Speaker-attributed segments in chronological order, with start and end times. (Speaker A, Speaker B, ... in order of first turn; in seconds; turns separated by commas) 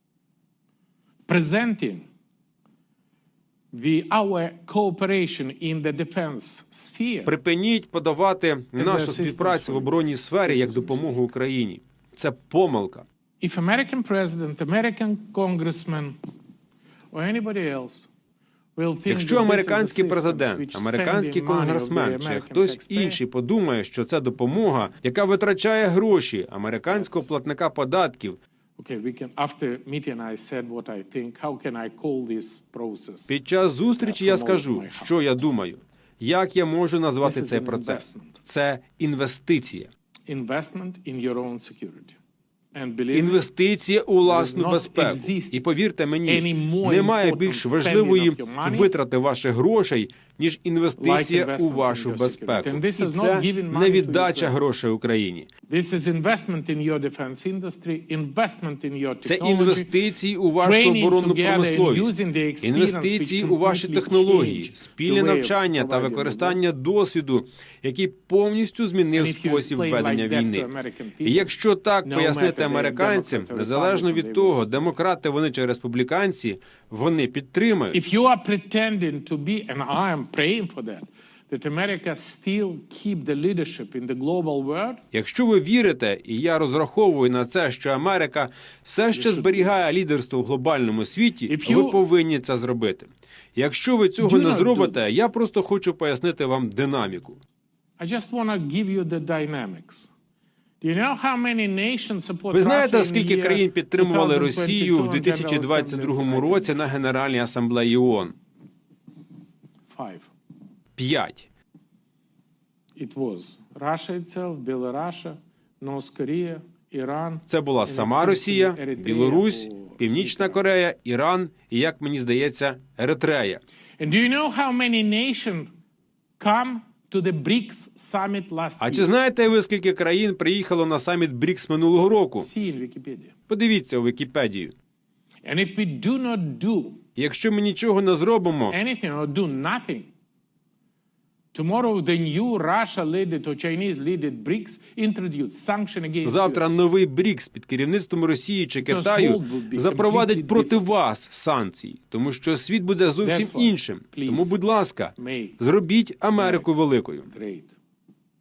Speaker A: 1.3-2.1, Speaker A: 3.7-7.3, Speaker B: 7.2-13.0, Speaker A: 8.7-11.2, Speaker A: 13.4-16.1, Speaker A: 17.1-18.1, Speaker A: 18.8-23.2, Speaker B: 19.1-28.4, Speaker A: 26.9-27.2, Speaker A: 28.8-33.3, Speaker B: 33.3-39.9, Speaker A: 34.0-35.1, Speaker A: 37.2-38.4, Speaker A: 40.3-42.2, Speaker A: 42.7-43.4, Speaker B: 43.1-55.5, Speaker A: 44.2-45.6, Speaker A: 46.2-48.9, Speaker A: 51.0-54.5, Speaker A: 55.7-59.9, Speaker B: 59.2-70.7, Speaker A: 60.6-66.6, Speaker A: 69.1-71.5, Speaker B: 71.2-78.0, Speaker A: 72.0-74.7, Speaker A: 77.9-85.0, Speaker B: 85.1-97.4, Speaker A: 89.1-89.7, Speaker A: 91.5-92.0, Speaker A: 94.2-95.0, Speaker A: 98.0-100.1, Speaker A: 100.8-106.7, Speaker B: 102.5-108.3, Speaker A: 109.9-110.3, Speaker B: 111.0-111.5, Speaker A: 113.0-120.6, Speaker B: 117.5-123.6, Speaker A: 124.0-125.7, Speaker A: 126.4-129.1, Speaker B: 128.8-132.5, Speaker A: 132.4-133.3, Speaker B: 133.5-134.7, Speaker A: 135.4-137.0, Speaker B: 137.2-138.8, Speaker A: 138.7-140.1, Speaker A: 141.5-146.8, Speaker B: 146.2-157.3, Speaker A: 148.8-150.8, Speaker A: 153.2-154.6, Speaker A: 155.2-155.6, Speaker A: 156.3-156.7, Speaker A: 157.3-157.7